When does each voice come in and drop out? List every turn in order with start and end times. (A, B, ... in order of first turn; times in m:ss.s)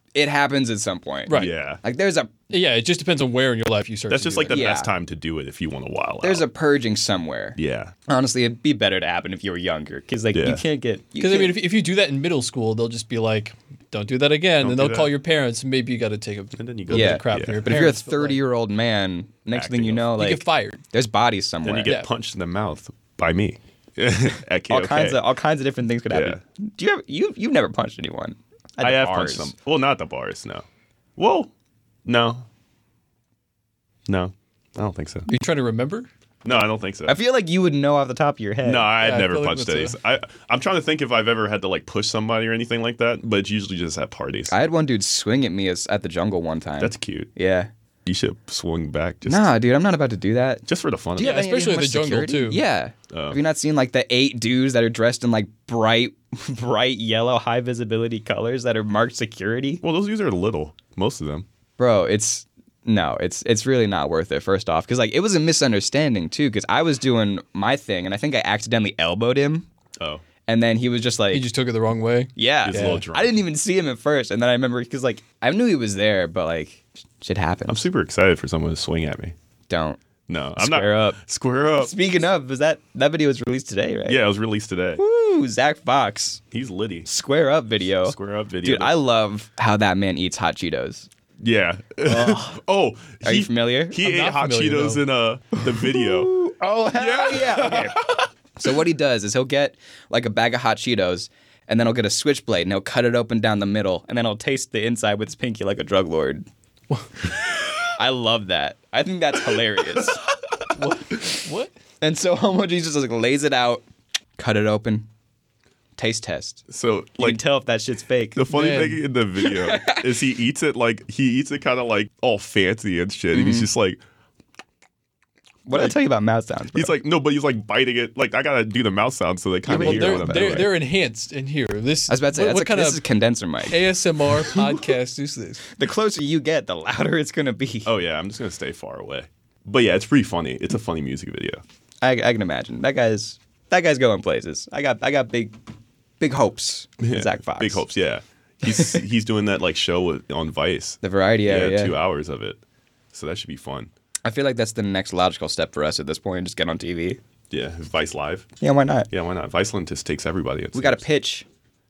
0:00.1-0:02.3 A
0:01.3-0:01.5 B
0:01.3-0:01.8 C
0:02.5-0:04.6 B
0:04.1-0:06.5 C
0:04.5-0:04.9 A
0:06.2-0:11.6 A
0:07.6-0:07.9 C
0:10.3-0:10.6 C
0:11.2-0:18.4 B
0:14.6-0:15.1 C
0:16.6-0:17.7 C
0:16.9-0:21.9 A
0:19.5-0:20.1 C
0:20.2-0:20.8 B
0:21.6-0:25.2 C
0:24.7-0:29.5 A
0:26.1-0:26.4 C
0:28.8-0:30.6 C
0:31.2-0:31.5 C
0:32.0-0:32.4 C
0:34.1-0:35.2 C
0:35.3-0:36.1 B
0:36.4-0:37.2 C
0:37.1-0:38.9 A
0:38.6-0:44.5 C
0:39.0-0:40.0 B
0:44.5-0:47.7 A
0:46.8-0:47.3 C
0:48.0-0:49.5 C
0:49.2-0:50.6 A
0:50.7-0:51.5 C
0:51.2-0:59.8 A
0:51.2-0:52.6 B
0:53.1-0:53.4 C
0:59.8-1:01.4 C
1:01.8-1:09.7 A
1:10.0-1:10.2 C
1:10.4-1:11.4 A
1:11.3-1:13.0 B
1:12.4-1:17.8 A
1:12.6-1:13.4 C
1:17.7-1:19.3 C
1:19.7-1:20.0 A
1:20.3-1:21.9 C
1:20.5-1:21.2 A
1:21.8-1:24.2 A
1:24.0-1:25.0 C
1:25.0-1:26.4 A
1:26.5-1:27.1 C
1:27.0-1:31.1 A
1:28.0-1:28.9 C
1:31.4-1:36.4 C
1:32.0-1:32.5 A
1:33.2-1:34.0 A
1:34.0-1:35.0 B
1:35.7-1:38.0 A
1:36.9-1:38.3 C
1:38.6-1:46.4 A
1:48.0-1:50.2 A
1:50.7-1:51.7 B
1:52.0-1:53.8 A
1:54.4-1:55.1 A
1:56.0-1:56.6 A
1:56.7-1:57.4 C
1:57.2-1:58.4 A
1:58.3-2:04.0 C
1:58.5-1:59.0 B
1:59.4-2:00.1 A
2:03.3-2:03.7 A
2:05.6-2:06.9 A
2:06.7-2:10.7 C
2:09.6-2:10.6 A
2:09.8-2:13.0 B
2:12.1-2:13.8 A
2:13.7-2:15.6 B
2:15.7-2:17.9 A
2:17.8-2:21.6 C
2:22.0-2:25.6 A
2:26.2-2:27.8 A
2:27.0-2:32.6 C
2:31.0-2:32.0 A
2:33.1-2:33.9 C
2:34.2-2:37.2 A
2:37.5-2:38.5 C
2:38.6-2:39.1 A
2:39.1-2:41.0 C
2:40.7-2:41.4 A